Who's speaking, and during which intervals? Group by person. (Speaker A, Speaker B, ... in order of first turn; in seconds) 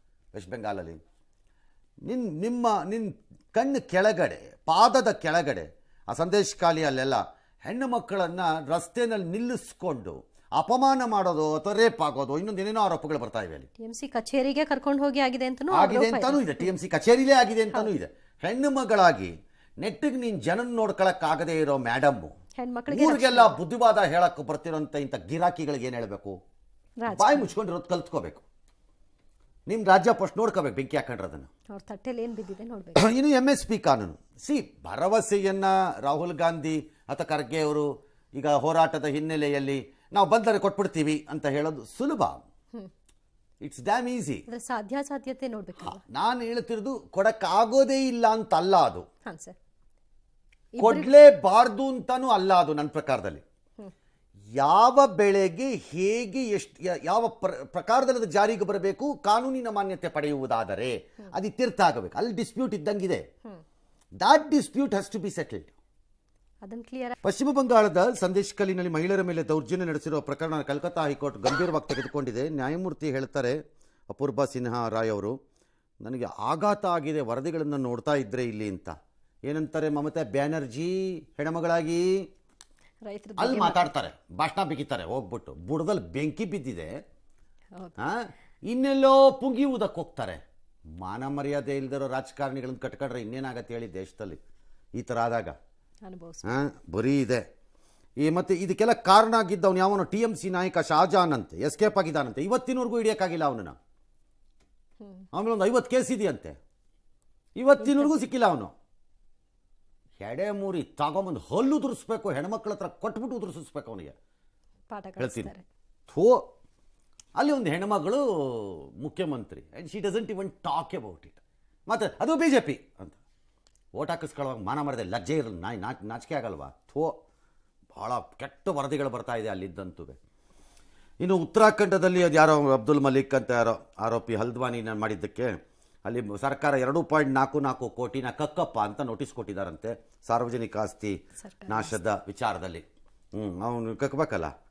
Speaker A: 0.3-1.0, 2.0-13.7, 15.7-22.3, 22.9-26.4, 27.1-28.4, 29.7-31.5, 33.0-42.4, 43.6-44.5, 45.8-49.0, 50.8-53.4, 54.6-63.2, 64.2-65.8, 67.2-73.6, 74.1-75.3, 76.0-78.9, 79.5-82.0, 83.4-86.9, 88.0-90.4, 91.0-94.4, 95.0-95.5, 96.5-97.4, 98.2-103.8, 105.3-106.6, 107.6-108.7, 110.2-114.1, 115.2-115.5, 116.1-116.4, 117.4-123.2, 123.9-127.1, 128.0-130.2, 131.2-135.5, 136.1-141.2, 141.7-144.5
Speaker B: 13.8-16.7, 22.6-23.6, 27.0-27.5, 31.7-33.0, 44.5-46.0, 49.3-49.6, 50.8-51.1, 66.6-67.2, 83.1-83.9, 96.0-96.5, 107.8-108.1, 114.9-115.6, 141.4-141.9